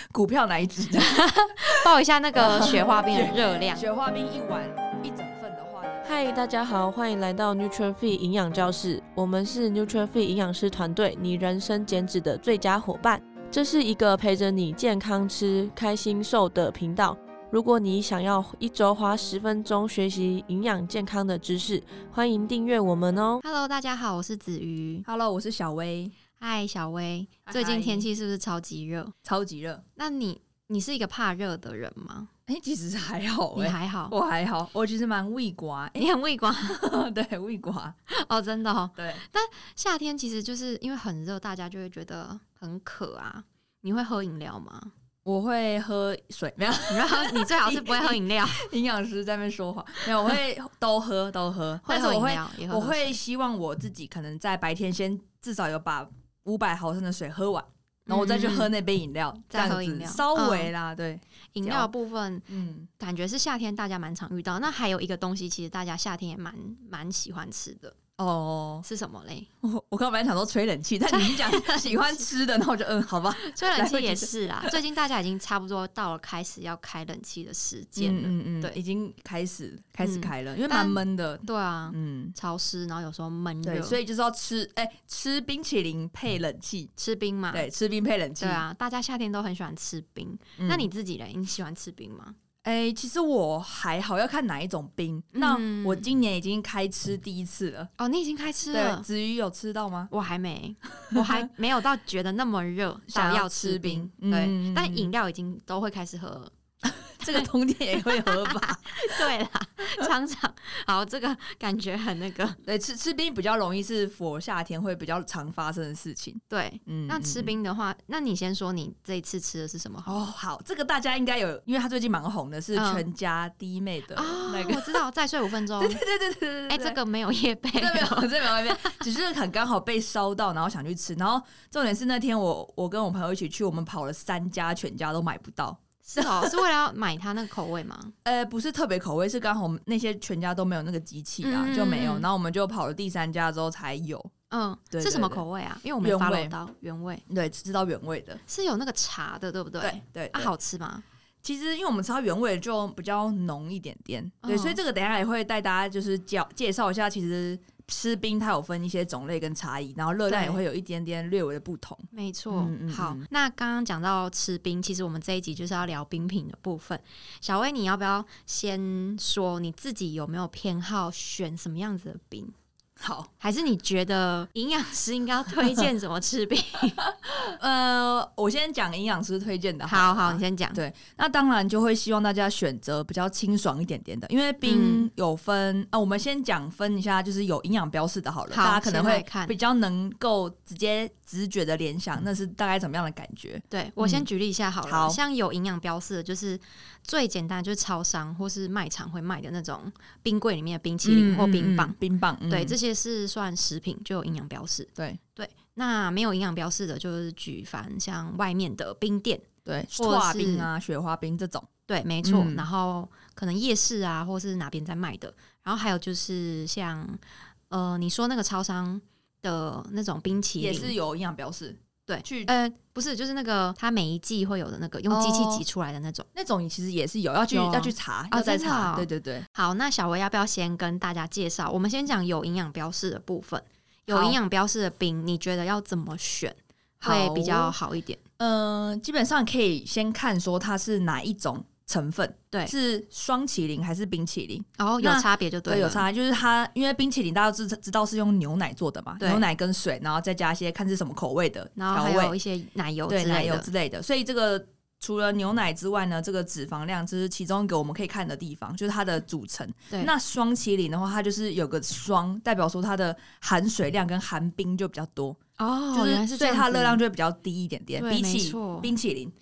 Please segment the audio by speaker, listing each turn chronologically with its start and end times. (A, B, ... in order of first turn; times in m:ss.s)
0:00.1-0:01.8 A
0:01.0-0:03.9 B
0:02.4-0:06.1 A
0:06.0-0:23.4 C
0:23.4-0:25.0 B
0:25.0-0:26.1 A
0:26.4-0:29.1 B
0:27.5-0:28.1 A
0:29.2-0:29.8 A
0:30.0-0:32.3 B
0:32.5-0:38.0 A
0:33.6-0:34.2 B
0:36.0-0:36.8 B
0:38.1-0:44.9 B
0:39.0-0:39.2 A
0:45.2-1:01.9 A
0:46.9-0:48.6 B
0:51.8-0:53.2 B
0:58.1-0:58.7 B
0:59.5-1:00.7 B
1:01.6-1:02.5 B
1:02.5-1:02.9 A
1:03.0-1:08.0 B
1:08.2-1:08.9 A
1:08.8-1:09.5 B
1:09.6-1:14.8 A
1:11.1-1:12.3 B
1:13.4-1:18.8 B
1:18.0-1:22.4 A
1:20.0-1:24.0 B
1:23.6-1:26.9 A
1:27.0-1:27.7 B
1:27.5-1:28.6 A
1:28.4-1:32.4 B
1:30.6-1:30.9 A
1:32.6-1:37.9 A
1:35.3-1:36.1 B
1:38.0-1:39.0 B
1:38.7-1:40.1 A
1:40.1-1:46.5 B
1:43.1-1:45.1 A
1:46.8-1:49.3 A
1:47.2-1:47.5 B
1:48.1-1:52.6 B
1:52.6-1:57.5 A
1:56.5-2:00.2 B
2:00.0-2:05.0 A
2:02.8-2:03.0 B
2:04.2-2:06.0 B
2:05.8-2:07.0 A
2:06.7-2:09.0 B
2:07.8-2:16.6 A
2:16.0-2:18.1 B
2:18.2-2:24.3 A
2:21.4-2:22.3 B
2:24.5-2:27.2 B
2:24.9-2:25.4 A
2:26.0-2:26.5 A
2:27.3-2:28.4 A
2:28.5-2:31.0 B
2:29.8-2:30.5 A
2:31.4-2:43.3 A
2:34.4-2:34.8 B
2:40.3-2:40.6 B
2:42.1-2:52.5 B
2:53.0-2:53.3 A
2:53.4-2:57.0 B
2:57.6-3:14.2 A
2:59.9-3:00.8 B
3:04.6-3:05.1 B
3:08.5-3:09.6 B
3:13.7-3:22.0 B
3:14.8-3:15.2 A
3:21.0-3:22.8 A
3:22.5-3:30.7 B
3:29.7-3:31.7 A
3:31.9-3:41.0 B
3:32.2-3:32.7 A
3:40.6-3:42.5 A
3:42.1-3:46.3 B
3:45.1-3:45.6 A
3:46.4-3:49.5 A
3:47.5-3:58.2 B
3:54.1-3:54.4 A
3:57.0-3:57.8 A
3:58.4-4:12.4 A
4:04.8-4:06.1 B
4:09.2-4:09.5 B
4:11.8-4:13.7 B
4:13.1-4:25.4 A
4:25.6-4:27.0 B
4:25.9-4:29.3 A
4:28.0-4:28.9 B